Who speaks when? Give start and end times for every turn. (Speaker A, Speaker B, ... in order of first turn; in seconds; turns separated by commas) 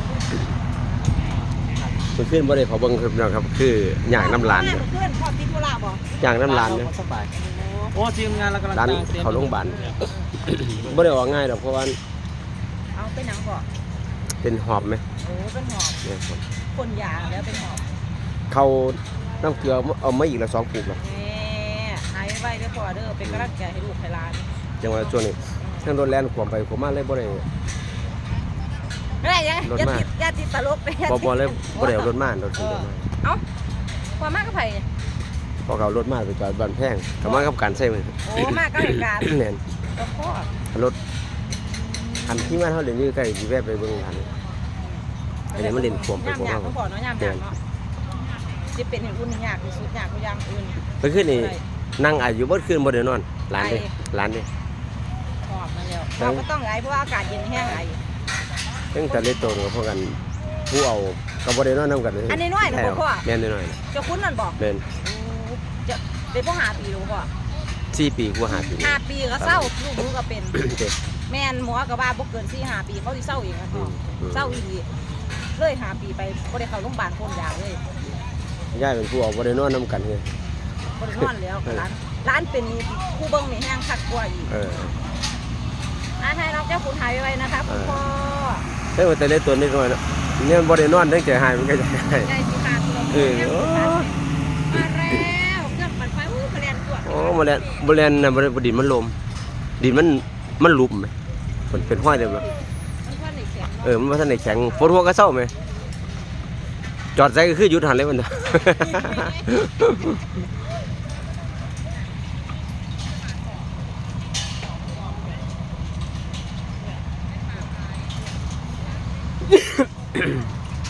Speaker A: 2.1-4.8, Speaker B: 4.1-6.0, Speaker A: 6.2-6.9, Speaker C: 6.2-7.3, Speaker B: 7.4-7.8, Speaker C: 7.9-10.1, Speaker A: 8.7-9.9, Speaker A: 10.5-12.0, Speaker C: 10.6-11.1, Speaker B: 12.9-13.7, Speaker A: 14.4-15.0, Speaker B: 15.2-16.0, Speaker A: 16.0-16.4, Speaker B: 16.7-17.8, Speaker A: 18.5-21.0, Speaker B: 21.0-24.5, Speaker A: 23.2-23.5, Speaker A: 24.8-27.4, Speaker B: 25.6-25.9, Speaker B: 29.2-32.1, Speaker A: 29.6-30.1, Speaker A: 31.1-33.1, Speaker B: 32.6-33.4, Speaker B: 34.2-34.9, Speaker A: 35.6-38.2, Speaker B: 37.2-37.5, Speaker B: 38.2-39.3, Speaker A: 39.2-39.6, Speaker B: 39.9-40.5, Speaker B: 41.6-42.6, Speaker A: 42.2-44.3, Speaker B: 45.5-47.6, Speaker A: 45.5-47.4, Speaker B: 48.7-51.6, Speaker A: 51.0-54.5, Speaker B: 53.6-53.9, Speaker B: 55.4-58.0, Speaker A: 56.2-56.4, Speaker A: 58.9-63.8, Speaker B: 59.1-59.6, Speaker B: 62.3-63.2, Speaker B: 63.9-67.3, Speaker A: 64.6-64.8, Speaker A: 67.9-69.7, Speaker B: 68.5-70.6, Speaker A: 70.6-70.9, Speaker B: 71.3-74.9, Speaker A: 73.8-74.6, Speaker B: 75.5-77.8, Speaker A: 78.7-80.2, Speaker B: 81.0-84.5, Speaker A: 84.5-85.0, Speaker B: 86.2-88.7, Speaker A: 87.7-88.0, Speaker A: 88.9-92.3, Speaker B: 92.2-94.1, Speaker A: 93.1-94.1, Speaker B: 94.7-97.4, Speaker A: 97.0-99.2, Speaker A: 99.8-101.1, Speaker A: 101.7-102.5, Speaker B: 103.0-104.8, Speaker A: 103.8-105.5, Speaker A: 107.2-110.2, Speaker B: 108.8-109.4, Speaker A: 119.5-119.8